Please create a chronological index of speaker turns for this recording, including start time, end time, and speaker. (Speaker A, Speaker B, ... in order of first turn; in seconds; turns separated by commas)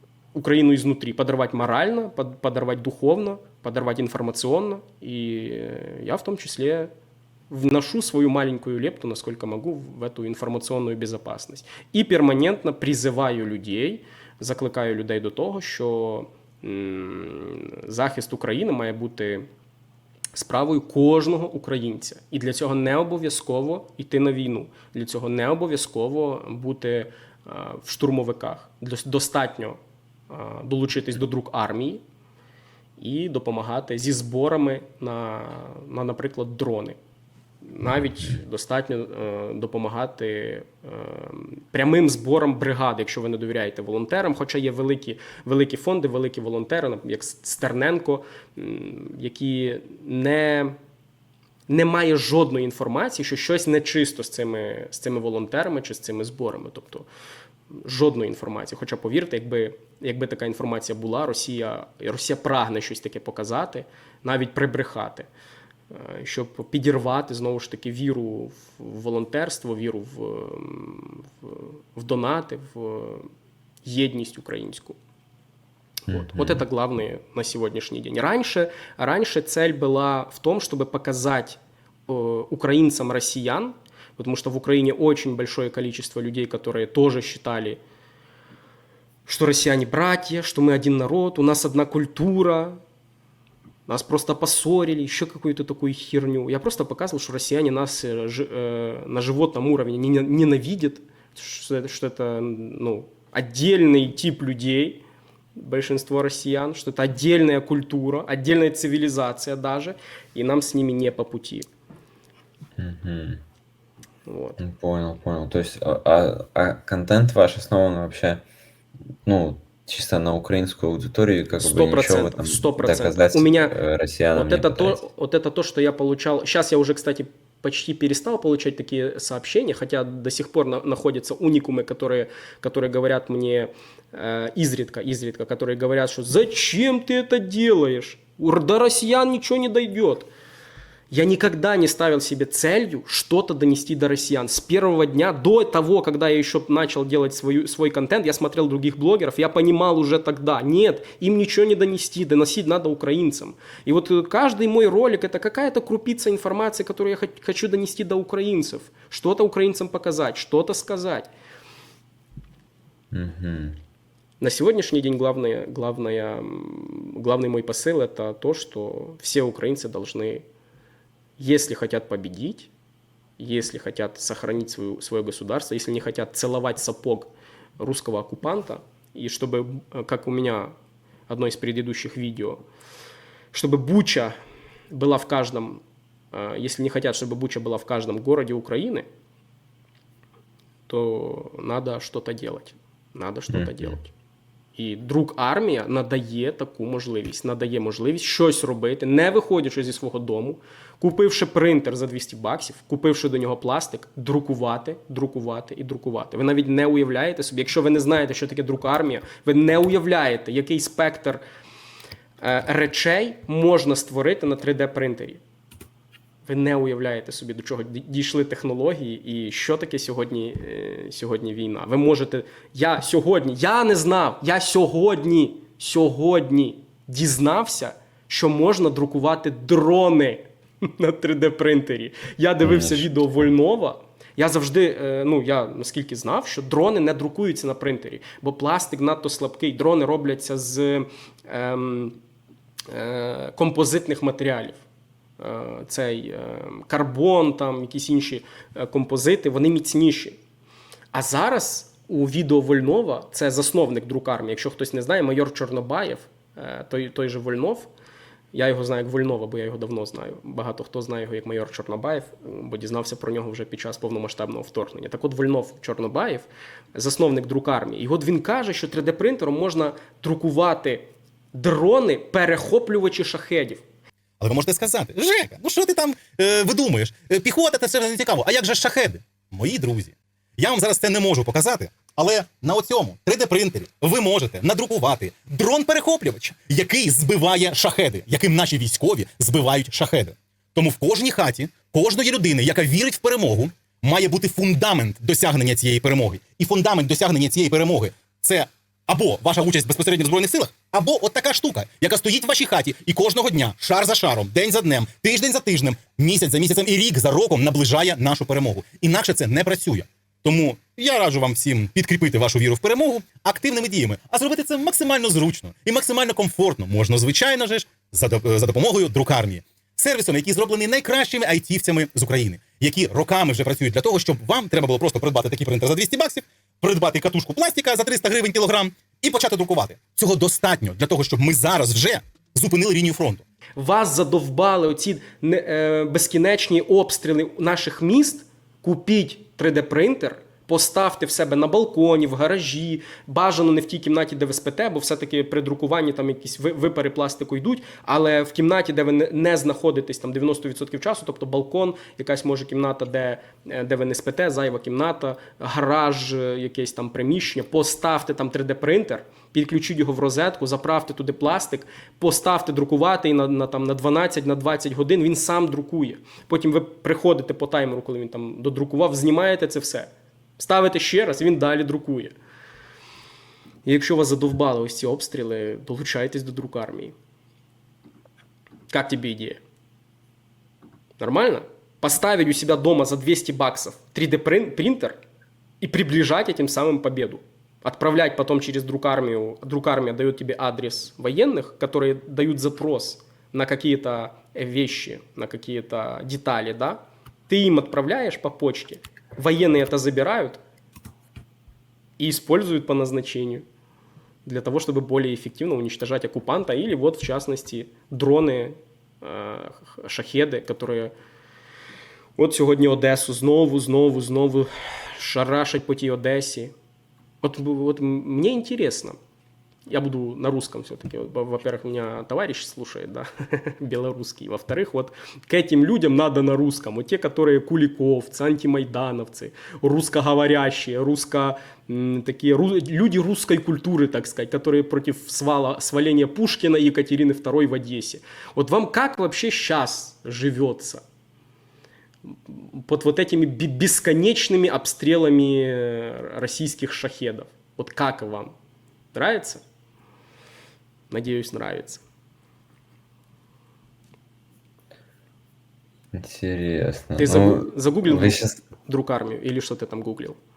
Speaker A: 0.3-6.9, Speaker A: 7.5-19.5, Speaker A: 20.3-29.8, Speaker A: 30.3-32.0, Speaker A: 33.0-37.0, Speaker A: 37.7-50.8, Speaker A: 51.7-57.1, Speaker A: 57.8-65.3, Speaker A: 65.9-73.3, Speaker A: 73.8-75.0, Speaker B: 76.1-76.6, Speaker A: 76.1-87.8, Speaker A: 89.3-92.8, Speaker A: 93.9-105.0, Speaker A: 105.6-111.7, Speaker B: 112.8-113.4, Speaker A: 114.3-114.6, Speaker B: 114.6-118.4, Speaker B: 119.2-125.0, Speaker A: 121.6-123.8, Speaker A: 124.3-140.3, Speaker A: 141.1-161.3, Speaker B: 163.1-163.8, Speaker A: 164.4-170.4, Speaker A: 171.4-172.7, Speaker A: 173.4-180.7, Speaker A: 181.3-182.6, Speaker A: 183.5-184.3, Speaker A: 184.9-189.1, Speaker A: 190.9-194.1, Speaker B: 193.5-194.0, Speaker A: 194.8-211.4, Speaker A: 212.4-215.4, Speaker A: 216.4-242.2, Speaker B: 232.6-233.1, Speaker A: 242.9-244.8, Speaker A: 245.4-250.4, Speaker A: 251.1-257.9, Speaker A: 258.5-273.9, Speaker C: 274.4-333.4, Speaker A: 333.8-372.3, Speaker A: 373.9-377.1, Speaker A: 378.9-379.6, Speaker A: 381.2-385.2, Speaker A: 385.8-400.6, Speaker A: 402.2-403.6, Speaker A: 404.4-411.1, Speaker A: 412.4-416.7, Speaker A: 417.4-419.2, Speaker A: 419.9-441.0, Speaker A: 442.5-448.5, Speaker A: 449.1-449.6, Speaker A: 451.1-452.0, Speaker B: 456.1-458.6, Speaker A: 457.2-460.4